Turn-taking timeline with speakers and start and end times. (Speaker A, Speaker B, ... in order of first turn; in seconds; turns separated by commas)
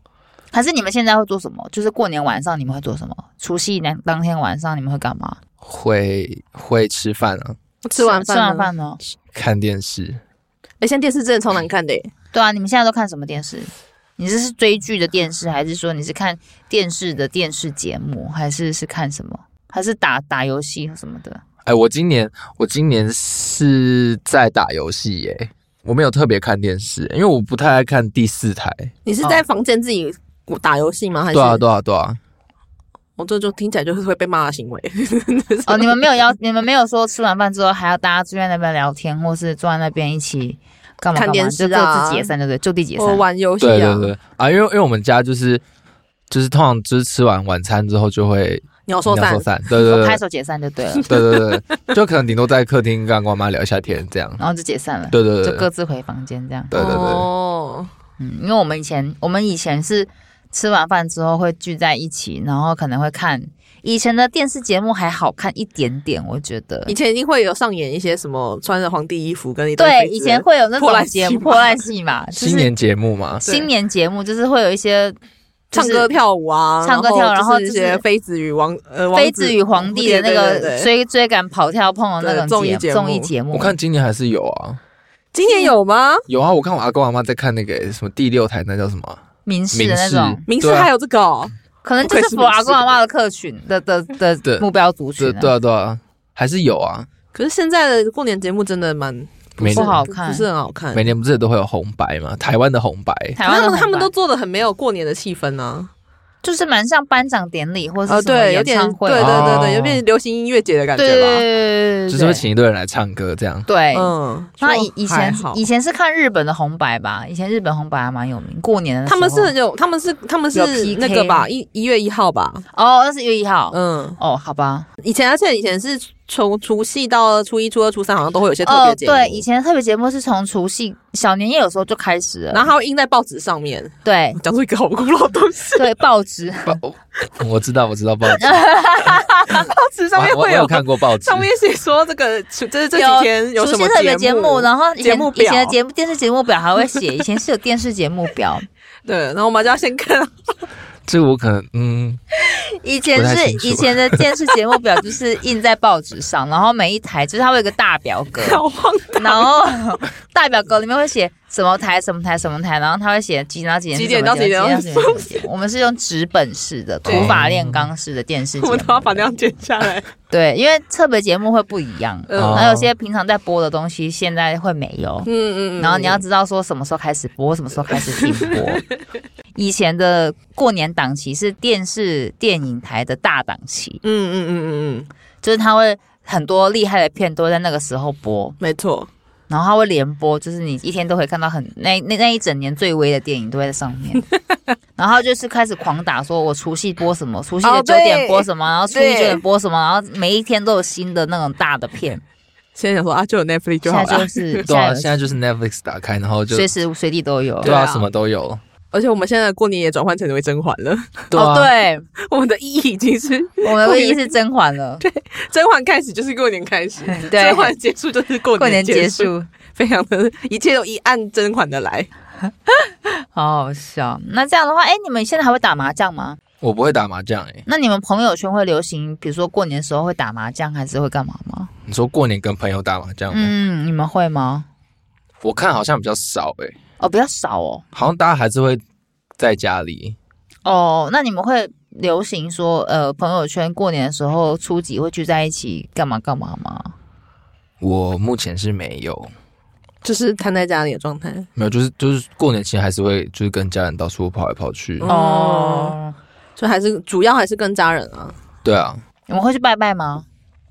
Speaker A: 0.5-5.4, Speaker B: 5.6-7.6, Speaker C: 7.8-8.7, Speaker A: 8.0-9.0, Speaker B: 9.3-10.2, Speaker C: 10.8-12.1, Speaker A: 12.3-21.4, Speaker B: 21.6-28.9, Speaker C: 29.1-31.6, Speaker B: 31.3-32.2, Speaker C: 33.2-36.1, Speaker A: 35.7-43.2, Speaker C: 41.1-42.3, Speaker C: 43.0-44.1, Speaker B: 43.6-45.6, Speaker B: 46.3-50.2, Speaker C: 48.9-49.5, Speaker A: 49.8-51.1, Speaker C: 51.1-51.6, Speaker B: 51.1-54.4, Speaker A: 54.4-56.8, Speaker B: 55.1-55.7, Speaker B: 56.7-57.3, Speaker C: 56.7-57.9, Speaker A: 58.2-67.0, Speaker C: 66.9-71.8, Speaker A: 69.8-72.7, Speaker B: 72.4-73.4, Speaker C: 73.5-73.7, Speaker A: 73.5-75.2, Speaker A: 75.7-76.1, Speaker C: 75.7-80.9, Speaker A: 76.8-78.0, Speaker A: 79.1-83.8, Speaker C: 82.2-83.3, Speaker B: 83.5-84.8, Speaker C: 85.3-86.3, Speaker A: 85.4-85.7, Speaker B: 86.3-89.2, Speaker A: 89.5-90.5, Speaker B: 89.7-90.9, Speaker C: 90.5-93.0, Speaker A: 91.8-95.5, Speaker B: 95.2-97.1, Speaker C: 97.3-101.1, Speaker B: 99.6-100.0, Speaker A: 99.6-100.5, Speaker B: 100.9-103.4, Speaker A: 103.4-104.1, Speaker C: 103.4-105.9, Speaker A: 106.4-109.8, Speaker C: 108.1-111.5, Speaker B: 109.2-110.0, Speaker A: 111.0-112.4, Speaker B: 112.1-113.7, Speaker A: 113.7-119.5, Speaker C: 113.9-115.6, Speaker C: 119.1-122.7, Speaker A: 120.5-121.5, Speaker A: 122.7-124.9, Speaker C: 123.7-124.2, Speaker C: 125.0-129.4, Speaker A: 128.6-132.7, Speaker C: 132.5-135.9, Speaker A: 134.0-134.4, Speaker A: 135.8-136.8, Speaker B: 136.7-138.7, Speaker A: 138.3-139.7, Speaker C: 139.5-145.8, Speaker B: 140.2-141.5, Speaker A: 142.9-148.7, Speaker C: 149.1-150.3, Speaker B: 151.1-152.2, Speaker A: 152.5-158.6, Speaker B: 153.2-154.2, Speaker C: 158.4-159.5, Speaker A: 159.2-169.3, Speaker C: 163.9-165.5, Speaker C: 167.1-167.3, Speaker B: 167.1-167.9, Speaker C: 168.6-170.1, Speaker A: 170.3-178.8, Speaker C: 172.3-172.7, Speaker B: 172.4-172.9, Speaker C: 175.3-176.2, Speaker C: 178.0-178.8, Speaker A: 179.6-184.0, Speaker C: 184.0-185.1, Speaker A: 185.4-188.6, Speaker C: 188.6-189.1, Speaker A: 189.5-194.3, Speaker A: 195.0-202.2, Speaker C: 197.6-199.4, Speaker C: 202.8-204.7, Speaker A: 203.8-205.2, Speaker B: 204.7-206.7, Speaker A: 206.5-207.8, Speaker C: 207.6-208.1, Speaker B: 207.6-208.6, Speaker C: 208.9-211.3, Speaker B: 211.3-211.7, Speaker A: 211.3-212.1, Speaker C: 212.2-214.3, Speaker A: 213.6-215.0, Speaker C: 215.0-222.1, Speaker A: 217.1-217.7, Speaker A: 218.6-219.5, Speaker A: 222.7-226.4, Speaker B: 226.6-227.6, Speaker A: 227.7-231.7, Speaker B: 231.9-233.5, Speaker A: 233.3-234.7, Speaker B: 235.4-236.8, Speaker A: 237.0-237.8, Speaker B: 237.9-238.8, Speaker B: 239.4-240.2, Speaker A: 240.7-246.9, Speaker B: 247.8-249.3, Speaker C: 250.0-251.5, Speaker B: 251.6-255.1, Speaker C: 255.0-256.0, Speaker A: 255.1-256.1, Speaker C: 256.6-258.4, Speaker B: 258.6-259.0, Speaker A: 259.3-260.3